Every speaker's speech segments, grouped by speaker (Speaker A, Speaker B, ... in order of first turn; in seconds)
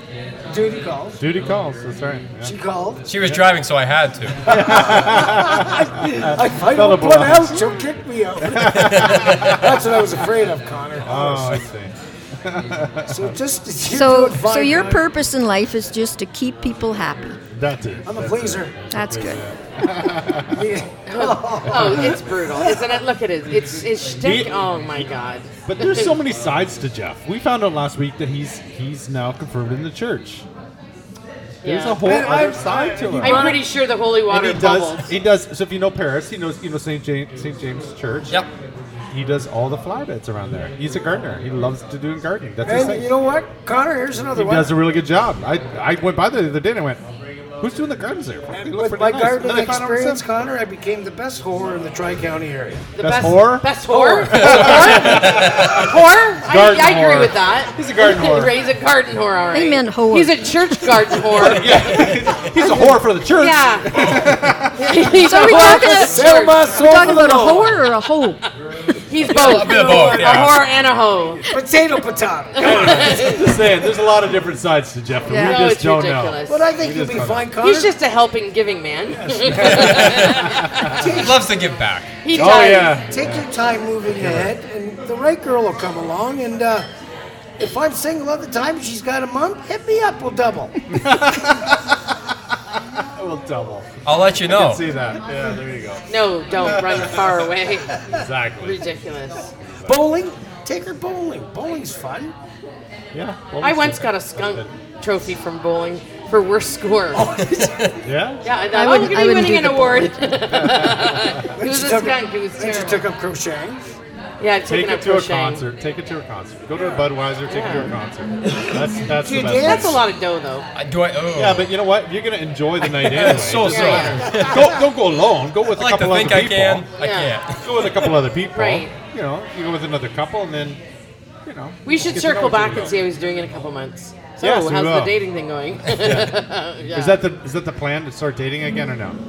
Speaker A: 0.5-1.2, 2.4-3.1, 4.5-11.6, 13.1-15.1, 18.1-18.8, 20.4-22.8, 32.0-33.7, 42.6-44.8, 48.5-52.9, 53.9-55.3, 65.7-67.9, 69.2-70.6, 71.5-73.5, 76.5-77.9, 79.3-79.7, 80.9-81.5, 82.3-86.9, 87.6-90.8, 99.9-102.3, 107.2-107.7, 111.5-114.0, 116.8-117.0, 119.1-120.0, 124.3-124.8
Speaker B: 1.2-2.5, 4.5-7.8, 8.4-9.7, 11.0-13.3, 17.5-20.6, 21.6-22.2, 24.1-25.1, 25.6-30.5, 31.6-33.5, 34.3-38.4, 39.1-43.1, 44.3-47.0, 47.6-50.2, 53.0-58.5, 61.3-65.2, 72.6-77.5, 79.3-80.9, 82.3-83.5, 84.2-84.5, 90.9-92.0, 93.2-97.3, 98.1-98.8, 99.6-100.1, 103.1-104.7, 108.0-108.5, 110.5-111.4, 114.7-120.0, 121.3-126.9, 127.6-130.8, 131.4-133.0, 134.4-135.1, 135.9-136.4, 136.9-139.2
Speaker C: 3.0-4.5, 8.7-9.6, 55.4-55.7, 69.3-70.6, 79.7-82.2, 94.0-94.8, 107.4-107.9, 120.7-121.7, 122.9-124.7, 125.7-127.6
Speaker D: 13.8-17.4, 18.9-20.1, 59.5-61.6, 62.6-63.0, 65.2-68.4, 75.3-75.6, 108.7-110.3
Speaker E: 21.1-26.1, 31.6-32.1, 33.2-35.1, 53.0-62.0, 63.4-64.0, 64.8-67.4, 69.0-71.4, 72.6-73.5, 75.4-76.6, 77.6-81.0, 82.2-83.0, 96.1-98.0, 98.6-99.5, 103.6-107.5, 108.4-113.0, 114.4-115.6, 117.5-117.9, 119.6-120.7, 123.5-124.3, 127.0-127.4, 128.5-128.9, 131.8-137.2